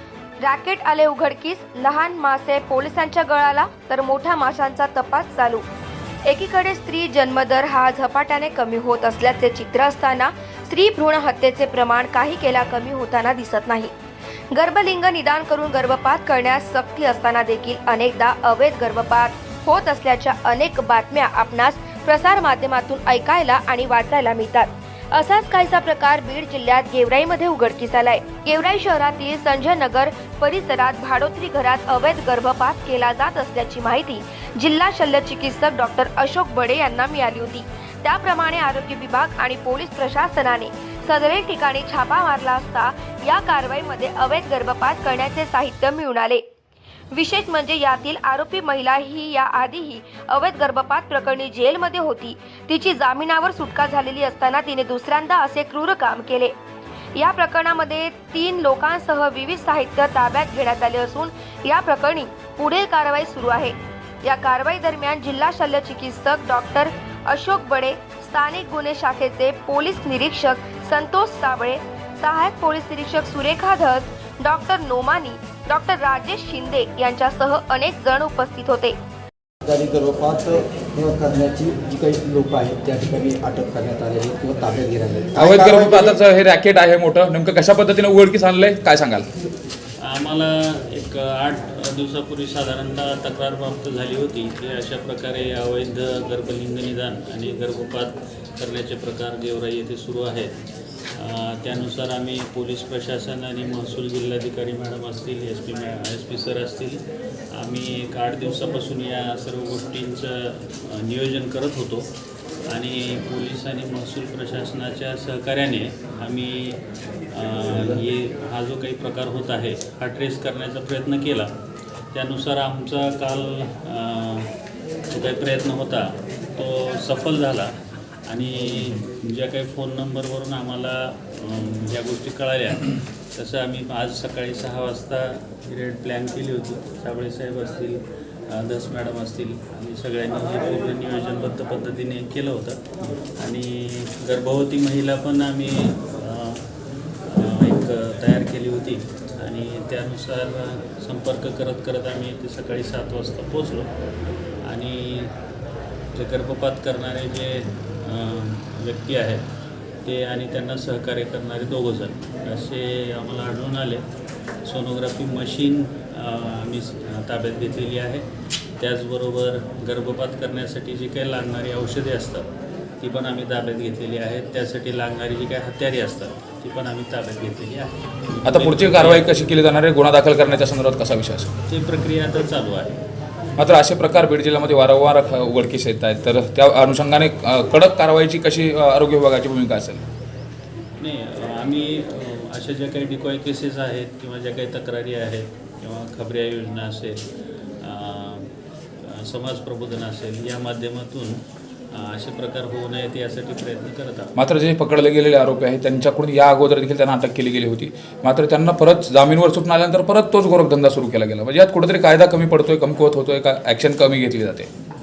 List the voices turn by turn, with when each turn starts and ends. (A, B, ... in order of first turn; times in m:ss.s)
0:00.4-0:05.6 A
0:06.3-0:13.9 A
0:14.5-0:46.4 A
0:47.1-0:56.5 A
0:57.2-1:19.0 A
1:19.6-1:26.2 B
1:25.4-1:29.3 C
1:30.0-1:40.6 D
1:41.2-1:47.0 D
1:47.6-1:52.1 D
1:52.7-1:56.8 D
1:57.3-2:01.5 D
2:02.1-2:04.5 D
2:05.1-2:07.7 D
2:08.3-2:26.6 D
2:27.3-2:33.9 D
2:34.6-2:35.4 D
2:36.1-2:39.5 D
2:40.0-2:44.0 D
2:44.6-2:48.2 D
2:48.8-2:52.5 D
2:53.0-2:59.5 D
2:58.5-3:01.5 C
3:01.7-3:03.0 D
3:03.6-3:10.0 C
3:11.0-3:17.2 D
3:17.8-3:21.4 D
3:21.9-3:24.3 D
3:24.4-3:34.7 C